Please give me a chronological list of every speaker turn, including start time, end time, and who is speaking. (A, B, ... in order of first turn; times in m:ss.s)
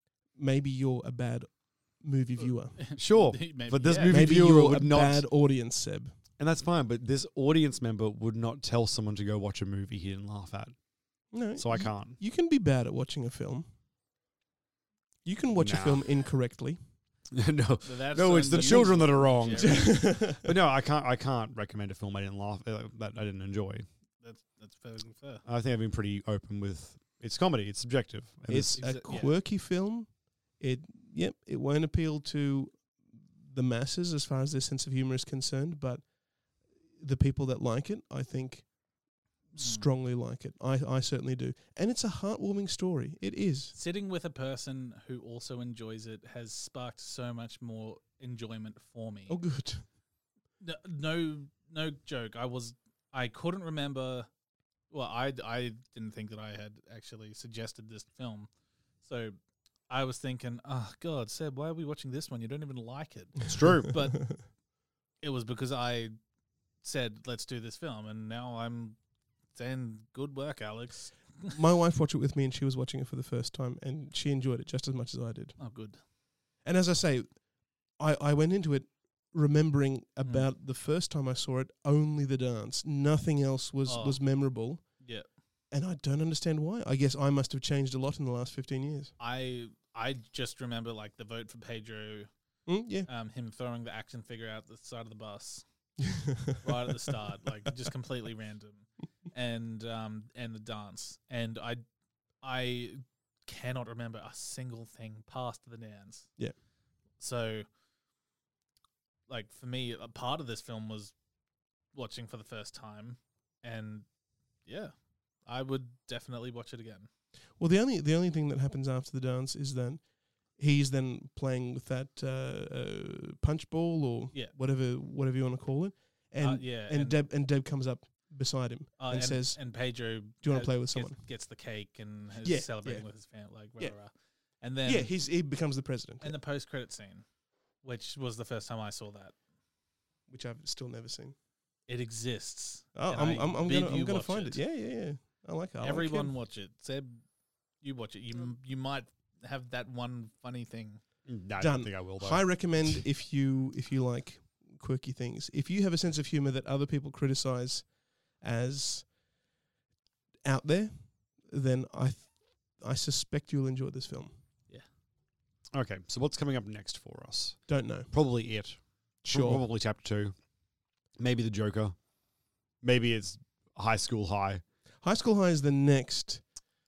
0:00.4-0:02.8 A
0:02.4-0:04.2 B
0:03.0-0:05.3 C
0:04.1-0:06.1 A
0:06.4-0:10.7 C
0:11.3-0:13.7 A
0:11.6-0:12.2 C
0:15.2-0:16.8 A
0:15.5-0:16.0 C
0:17.3-0:23.8 C
0:17.8-0:20.0 B
0:18.6-0:19.0 A
0:19.6-0:20.4 A
0:24.2-0:25.4 B
0:25.4-0:28.9 C
0:28.5-0:36.0 A
0:28.8-0:29.4 B
0:36.9-0:38.7 A
0:39.5-0:43.7 A
0:39.6-0:39.9 B
0:43.7-0:49.4 B
0:49.3-0:49.8 A
0:50.6-0:54.3 B
0:54.9-0:58.5 B
0:59.0-0:59.4 B
0:59.9-1:04.2 B
1:03.5-1:04.0 C
1:05.2-1:06.1 B
1:06.8-1:09.0 B
1:09.5-1:11.5 B
1:11.5-1:15.6 A
1:15.6-1:16.0 B
1:16.6-1:25.1 A
1:20.2-1:20.5 B
1:23.8-1:25.3 B
1:25.7-1:29.1 A
1:29.2-1:32.3 B
1:32.7-1:33.1 A
1:33.0-1:35.6 B
1:36.0-1:37.1 A
1:36.6-1:41.8 B
1:42.4-1:46.3 B
1:47.2-1:47.6 B
1:49.3-1:51.1 B
1:51.9-1:54.0 B
1:54.6-1:54.9 B
1:55.4-1:57.1 B
1:57.6-2:00.0 A
2:00.5-2:09.6 A
2:06.4-2:07.2 B
2:09.0-2:15.1 B
2:10.4-2:11.2 A
2:12.4-2:13.1 A
2:14.8-2:16.4 A
2:16.2-2:17.2 B
2:17.8-2:19.3 B
2:20.3-2:21.4 A
2:21.9-2:24.6 B
2:22.9-2:26.3 A
2:25.8-2:27.2 B
2:27.8-2:31.0 B
2:31.2-2:32.4 C
2:31.6-2:39.1 A
2:40.4-2:44.3 A
2:45.7-2:50.3 C
2:47.7-2:48.1 A
2:49.2-2:49.6 A
2:51.2-2:52.0 C
2:52.8-2:54.6 C
2:55.0-2:56.4 A